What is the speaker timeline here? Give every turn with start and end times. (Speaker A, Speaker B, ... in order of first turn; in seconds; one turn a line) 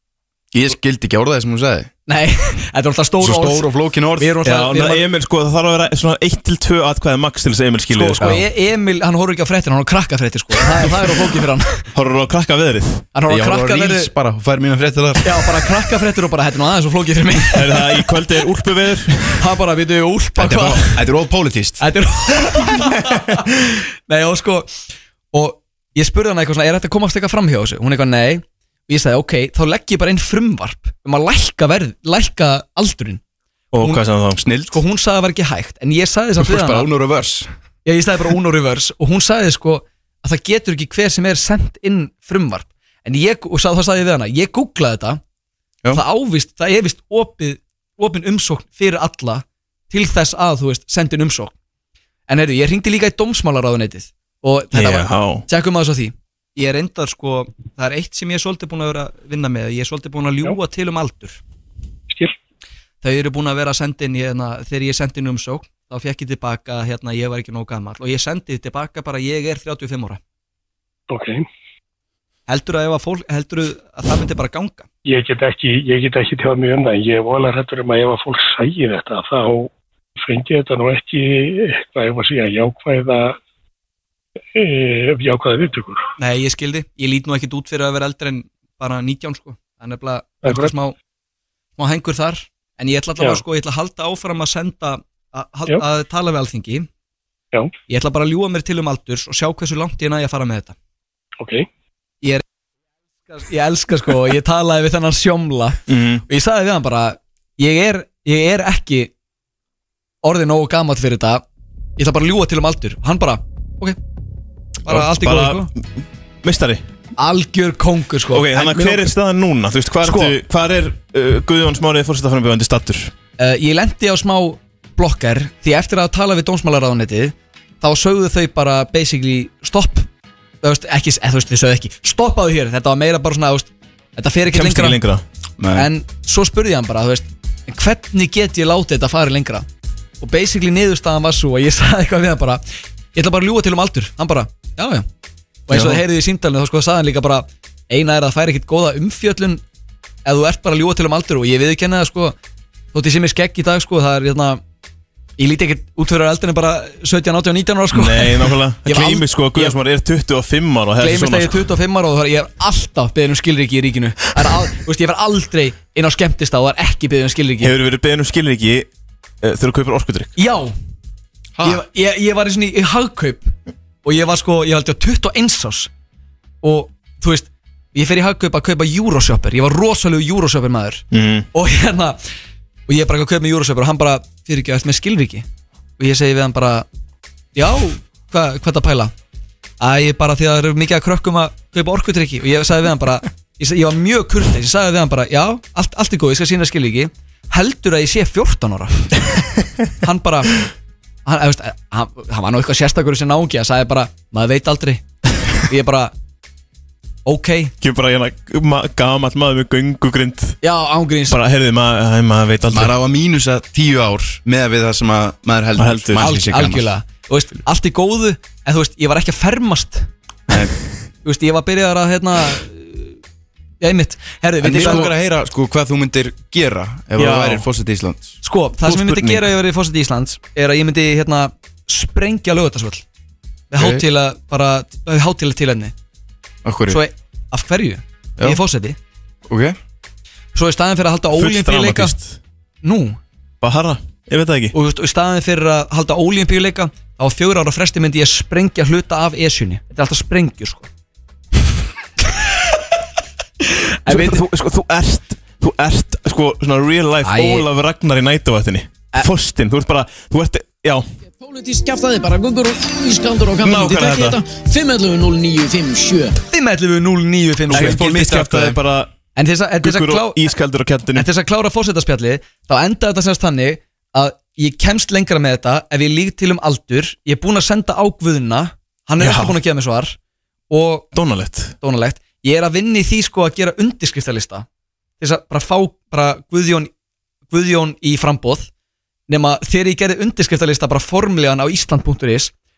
Speaker A: 0.5-1.9
Speaker B: 2.1-5.0
Speaker A: 3.2-4.4
Speaker C: 4.5-8.4
Speaker B: 7.9-11.8
Speaker C: 11.9-13.1
Speaker B: 13.1-14.1
Speaker A: 13.3-15.6
Speaker B: 15.2-17.8
Speaker C: 17.5-19.5
Speaker B: 19.4-21.1
Speaker A: 20.4-21.8
Speaker B: 21.8-24.7
Speaker B: 25.3-33.2
Speaker C: 33.7-34.4
Speaker A: 34.4-34.8
Speaker B: 34.7-36.9
Speaker A: 36.4-37.5
Speaker B: 37.9-45.2
Speaker B: 45.9-51.5
Speaker B: 52.3-61.4
Speaker C: 54.7-55.5
Speaker D: 62.1-62.4
Speaker B: 63.0-70.2
Speaker D: 71.1-71.5
Speaker B: 72.5-74.9
Speaker D: 75.1-79.7
Speaker D: 80.2-83.4
Speaker D: 84.5-86.0
Speaker B: 86.2-90.9
Speaker D: 90.4-90.8
Speaker B: 91.8-96.9
Speaker D: 93.2-93.4
Speaker B: 97.9-100.7
Speaker D: 101.4-101.7
Speaker B: 103.3-109.1
Speaker C: 105.9-106.2
Speaker B: 110.2-111.4
Speaker B: 112.0-114.0
Speaker C: 114.8-115.8
Speaker B: 114.9-115.7
Speaker C: 116.4-116.8
Speaker B: 117.2-119.1
Speaker C: 118.3-123.1
Speaker B: 120.0-120.4
Speaker B: 123.4-130.1
Speaker B: 130.6-135.0
Speaker C: 134.5-135.2
Speaker A: 135.6-135.9
Speaker B: 135.8-139.7
Speaker B: 140.2-142.6
Speaker B: 143.1-145.1
Speaker B: 145.7-149.6
Speaker C: 145.7-146.0
Speaker B: 150.2-152.4
Speaker B: 152.9-154.6
Speaker B: 155.4-159.8
Speaker C: 157.9-161.7
Speaker B: 161.0-167.7
Speaker C: 167.6-168.9
Speaker C: 169.4-170.3
Speaker B: 170.4-170.7
Speaker A: 171.6-171.8
Speaker B: 171.6-175.9
Speaker B: 176.6-182.2
Speaker C: 181.1-181.5
Speaker B: 182.9-185.5
Speaker B: 186.0-186.9
Speaker B: 187.6-189.1
Speaker B: 189.8-199.2
Speaker B: 200.0-200.6
Speaker B: 201.2-205.0
Speaker B: 205.7-206.1
Speaker B: 207.3-207.7
Speaker C: 207.8-210.6
Speaker B: 210.6-211.4
Speaker C: 211.3-212.9
Speaker A: 212.7-216.9
Speaker C: 215.8-216.3
Speaker B: 216.2-220.1
Speaker B: 221.2-223.2
Speaker B: 223.8-225.1
Speaker A: 224.6-228.4
Speaker C: 224.7-225.1
Speaker C: 227.2-227.7
Speaker B: 228.4-233.1
Speaker C: 228.9-229.4
Speaker B: 233.7-235.9
Speaker A: 233.8-234.1
Speaker A: 236.7-237.0
Speaker B: 236.9-239.0
Speaker A: 239.5-239.8
Speaker B: 240.6-242.2
Speaker C: 241.3-242.4
Speaker B: 242.8-243.2
Speaker C: 243.6-244.7
Speaker B: 244.7-250.9
Speaker B: 254.1-254.4
Speaker C: 254.1-261.1
Speaker B: 257.2-257.7
Speaker E: 261.4-266.4
Speaker C: 263.6-264.4
Speaker B: 266.5-268.1
Speaker A: 267.7-268.8
Speaker C: 267.7-269.1
Speaker B: 269.4-270.5
Speaker C: 269.8-271.3
Speaker B: 271.2-280.2
Speaker C: 279.2-279.6
Speaker B: 280.7-281.1
Speaker C: 281.1-281.8
Speaker B: 281.8-284.7
Speaker B: 285.2-286.9
Speaker B: 287.5-288.7
Speaker B: 289.3-292.5